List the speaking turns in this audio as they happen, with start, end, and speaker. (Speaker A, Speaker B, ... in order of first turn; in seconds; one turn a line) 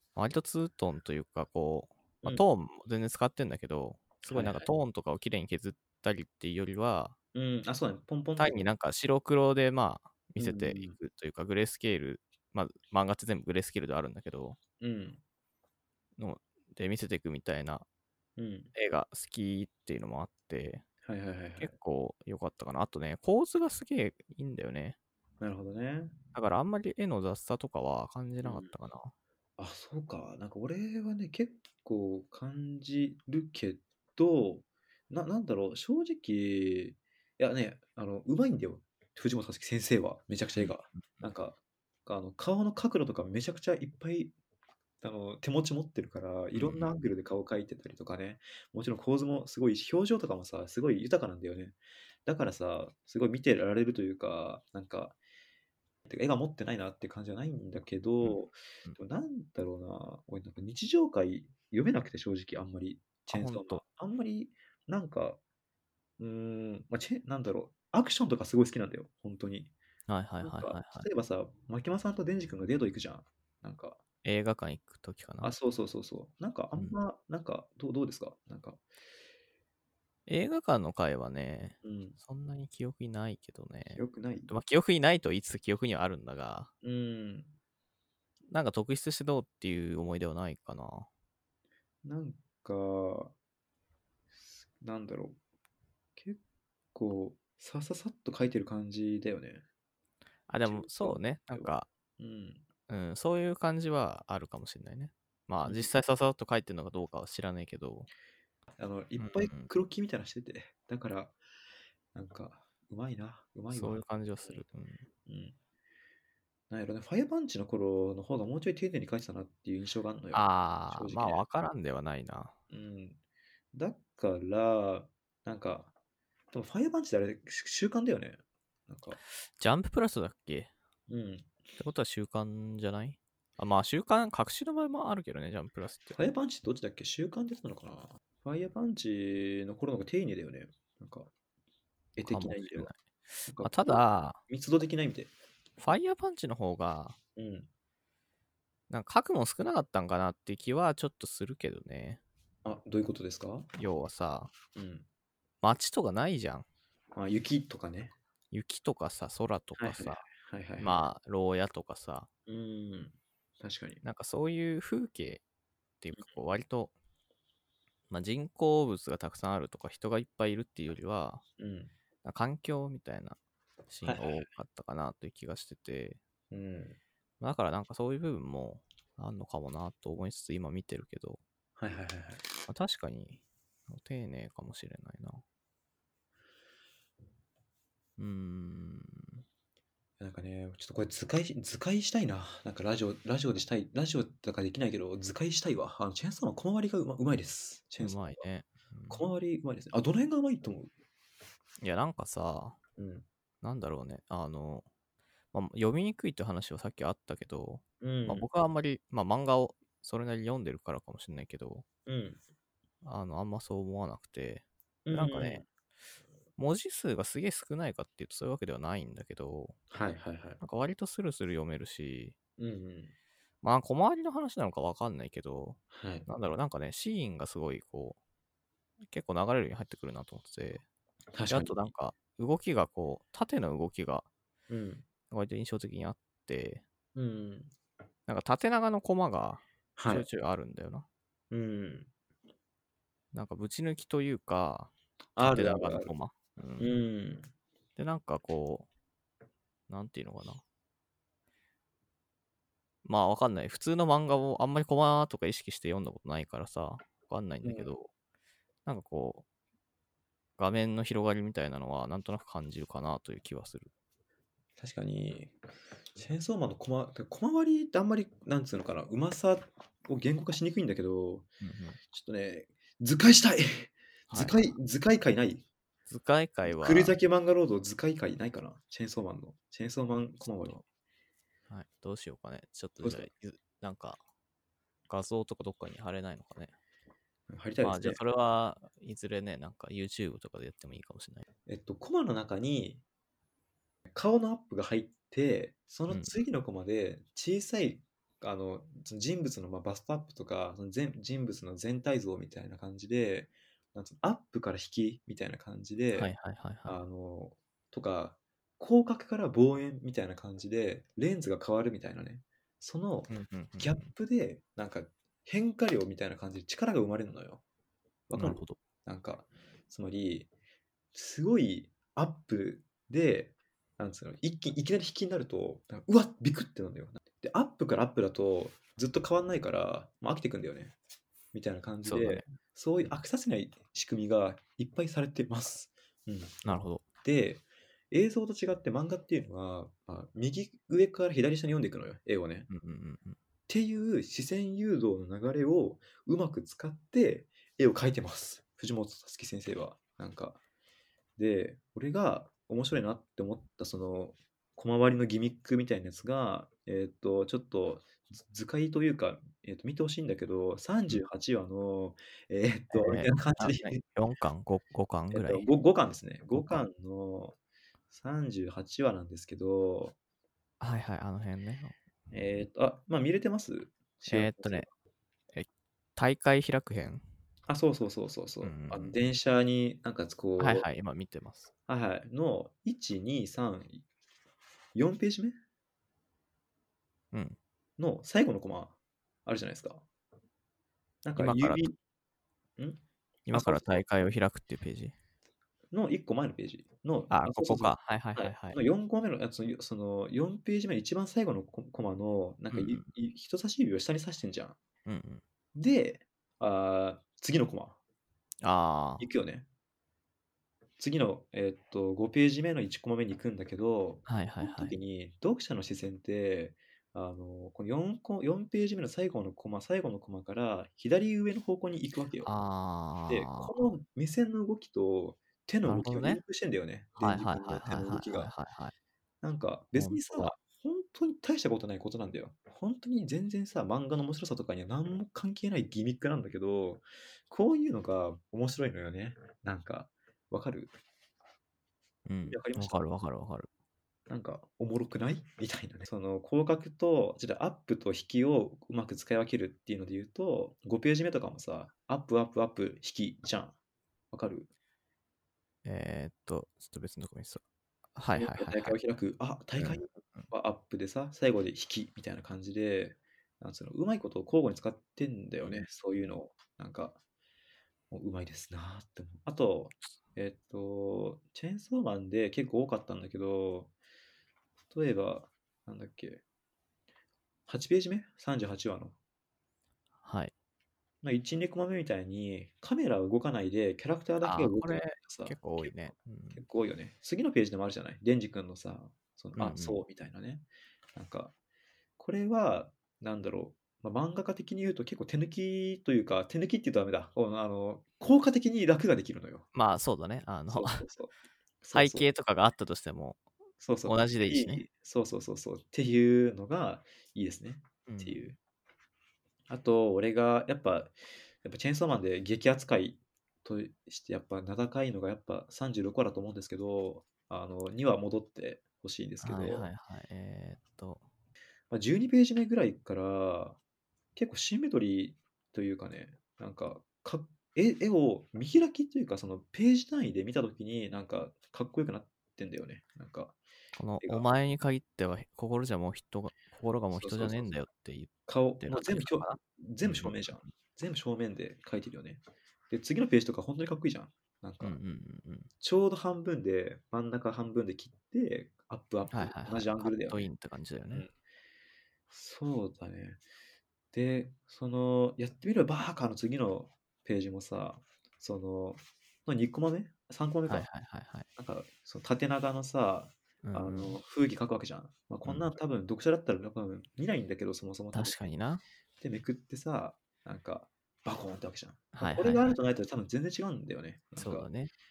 Speaker A: 0.1-7.2
Speaker B: 4.3-4.7
Speaker B: 7.3-8.6
Speaker A: 8.4-14.6
Speaker B: 10.4-11.0
Speaker B: 14.8-15.2
Speaker A: 16.2-17.8
Speaker B: 18.4-18.7
Speaker A: 18.8-20.8
Speaker B: 21.0-21.8
Speaker A: 21.6-25.0
Speaker B: 25.4-26.1
Speaker A: 26.3-29.1
Speaker B: 28.4-28.7
Speaker B: 29.6-44.3
Speaker A: 40.5-41.2
Speaker B: 45.0-55.2
Speaker A: 46.5-46.9
Speaker B: 56.0-65.4
Speaker A: 58.2-59.0
Speaker A: 63.3-63.8
Speaker B: 66.2-69.7
Speaker A: 70.1-71.1
Speaker B: 70.4-74.0
Speaker A: 74.2-75.5
Speaker B: 75.4-78.8
Speaker A: 80.3-86.7
Speaker B: 81.8-82.2
Speaker B: 83.9-84.5
Speaker B: 86.8-87.5
Speaker A: 88.5-91.1
Speaker B: 92.0-93.3
Speaker B: 94.3-95.4
Speaker B: 96.9-99.6
Speaker A: 100.5-101.9
Speaker B: 100.6-102.6
Speaker A: 102.9-108.1
Speaker B: 105.6-105.9
Speaker B: 108.8-111.3
Speaker A: 109.2-109.7
Speaker B: 112.1-114.6
Speaker A: 113.7-115.1
Speaker B: 115.2-115.5
Speaker B: 116.7-121.4
Speaker A: 120.3-122.5
Speaker B: 122.7-123.2
Speaker B: 123.7-125.9
Speaker B: 126.5-129.2
Speaker A: 129.6-130.7
Speaker B: 131.1-131.5
Speaker A: 131.8-136.2
Speaker B: 136.1-141.3
Speaker B: 142.2-142.9
Speaker A: 142.2-144.4
Speaker B: 143.5-145.3
Speaker A: 145.8-147.2
Speaker B: 147.3-147.7
Speaker A: 148.9-152.2
Speaker B: 152.6-153.7
Speaker A: 153.8-154.5
Speaker B: 154.8-155.1
Speaker A: 155.6-156.7
Speaker B: 157.1-158.1
Speaker A: 158.5-162.3
Speaker B: 159.8-161.0
Speaker B: 162.5-164.0
Speaker A: 164.0-165.4
Speaker A: 166.0-166.9
Speaker A: 168.1-171.4
Speaker B: 171.6-171.9
Speaker A: 172.2-173.4
Speaker A: 173.9-176.2
Speaker B: 174.0-174.5
Speaker B: 176.5-177.0
Speaker A: 177.4-181.4
Speaker B: 181.8-182.5
Speaker A: 182.7-185.4
Speaker A: 188.2-189.4
Speaker B: 190.2-198.4
Speaker A: 198.0-199.2
Speaker B: 199.1-200.9
Speaker A: 201.8-202.8
Speaker B: 203.0-203.2
Speaker A: 203.6-204.9
Speaker A: 205.5-211.8
Speaker B: 208.0-208.5
Speaker B: 212.1-212.4
Speaker A: 213.0-215.6
Speaker B: 215.0-215.6
Speaker A: 216.6-219.8
Speaker B: 219.9-220.6
Speaker A: 220.6-222.3
Speaker B: 222.6-223.1
Speaker A: 223.6-228.2
Speaker B: 225.9-226.3
Speaker A: 229.1-230.8
Speaker B: 231.3-231.9
Speaker A: 231.5-234.3
Speaker B: 234.7-235.0
Speaker A: 235.3-236.8
Speaker B: 237.1-237.7
Speaker A: 238.3-241.1
Speaker B: 240.0-240.3
Speaker B: 241.5-242.1
Speaker A: 243.3-246.9
Speaker B: 245.3-246.1
Speaker B: 246.8-247.5
Speaker A: 248.0-248.9
Speaker A: 249.9-250.6
Speaker A: 253.0-258.1
Speaker B: 257.6-257.9
Speaker A: 258.8-259.4
Speaker A: 260.6-263.9
Speaker B: 264.8-265.6
Speaker B: 266.1-271.5
Speaker A: 271.6-272.0
Speaker B: 272.1-275.6
Speaker A: 274.3-274.6
Speaker A: 276.1-277.2
Speaker B: 276.6-280.8
Speaker A: 280.4-280.8
Speaker A: 281.7-284.2
Speaker B: 283.0-283.3
Speaker A: 285.1-286.8
Speaker B: 287.5-288.2
Speaker A: 287.8-291.5
Speaker B: 291.7-293.0
Speaker B: 294.1-306.3
Speaker A: 296.1-296.4
Speaker A: 306.1-307.0
Speaker B: 306.9-317.6
Speaker A: 313.3-314.1
Speaker B: 318.3-320.5
Speaker A: 318.3-318.8
Speaker B: 321.1-330.9
Speaker B: 331.5-336.5
Speaker A: 332.0-332.5
Speaker A: 336.6-337.0
Speaker B: 337.2-342.7
Speaker A: 342.7-343.4
Speaker B: 343.7-350.6
Speaker B: 351.4-364.0
Speaker A: 362.9-365.7
Speaker B: 365.3-367.5
Speaker A: 366.5-366.8
Speaker B: 368.1-370.1
Speaker A: 370.8-372.0
Speaker B: 372.3-374.9
Speaker A: 374.3-374.9
Speaker A: 375.5-377.2
Speaker B: 377.7-380.9
Speaker A: 378.6-379.2
Speaker A: 380.6-381.7
Speaker B: 381.9-384.0
Speaker B: 384.9-385.6
Speaker A: 387.3-387.6
Speaker B: 388.0-388.9
Speaker B: 389.5-390.0
Speaker B: 391.2-391.9
Speaker A: 391.4-391.9
Speaker B: 392.8-393.9
Speaker A: 393.5-395.1
Speaker B: 395.9-404.8
Speaker A: 397.3-398.8
Speaker A: 402.7-403.1
Speaker A: 405.1-405.4
Speaker B: 405.8-408.0
Speaker A: 408.6-409.3
Speaker B: 409.2-409.7
Speaker B: 411.0-422.5
Speaker A: 414.3-414.9
Speaker A: 422.4-423.9
Speaker B: 423.3-428.5
Speaker A: 425.8-426.4
Speaker A: 427.2-428.9
Speaker B: 429.4-440.9
Speaker A: 429.9-430.5
Speaker A: 442.2-443.7
Speaker B: 442.4-443.0
Speaker B: 444.3-453.8
Speaker B: 454.3-454.7
Speaker A: 455.8-457.6
Speaker A: 458.1-459.0
Speaker B: 458.3-467.2
Speaker A: 459.8-460.5
Speaker B: 468.1-473.9
Speaker B: 474.9-476.4
Speaker B: 477.7-479.1
Speaker A: 480.2-480.5
Speaker B: 481.2-491.5
Speaker A: 484.4-486.6
Speaker A: 489.6-490.0
Speaker B: 492.2-499.7
Speaker A: 499.7-501.0
Speaker B: 500.7-502.3
Speaker A: 501.9-503.5
Speaker B: 503.8-508.6
Speaker A: 504.0-504.9
Speaker A: 508.1-508.5
Speaker B: 509.7-519.9
Speaker A: 519.4-521.2
Speaker B: 521.9-523.8
Speaker B: 524.4-533.6
Speaker A: 534.0-540.7
Speaker B: 534.2-534.5
Speaker B: 537.1-537.7
Speaker B: 538.5-545.0
Speaker A: 544.8-545.7
Speaker B: 545.8-550.5
Speaker A: 549.3-551.3
Speaker B: 551.1-551.3
Speaker B: 552.3-553.4
Speaker B: 554.1-560.9
Speaker A: 560.7-561.5
Speaker B: 561.6-568.5
Speaker A: 563.6-564.2
Speaker A: 568.1-568.8
Speaker B: 569.2-574.7
Speaker A: 572.1-572.8
Speaker A: 574.4-574.9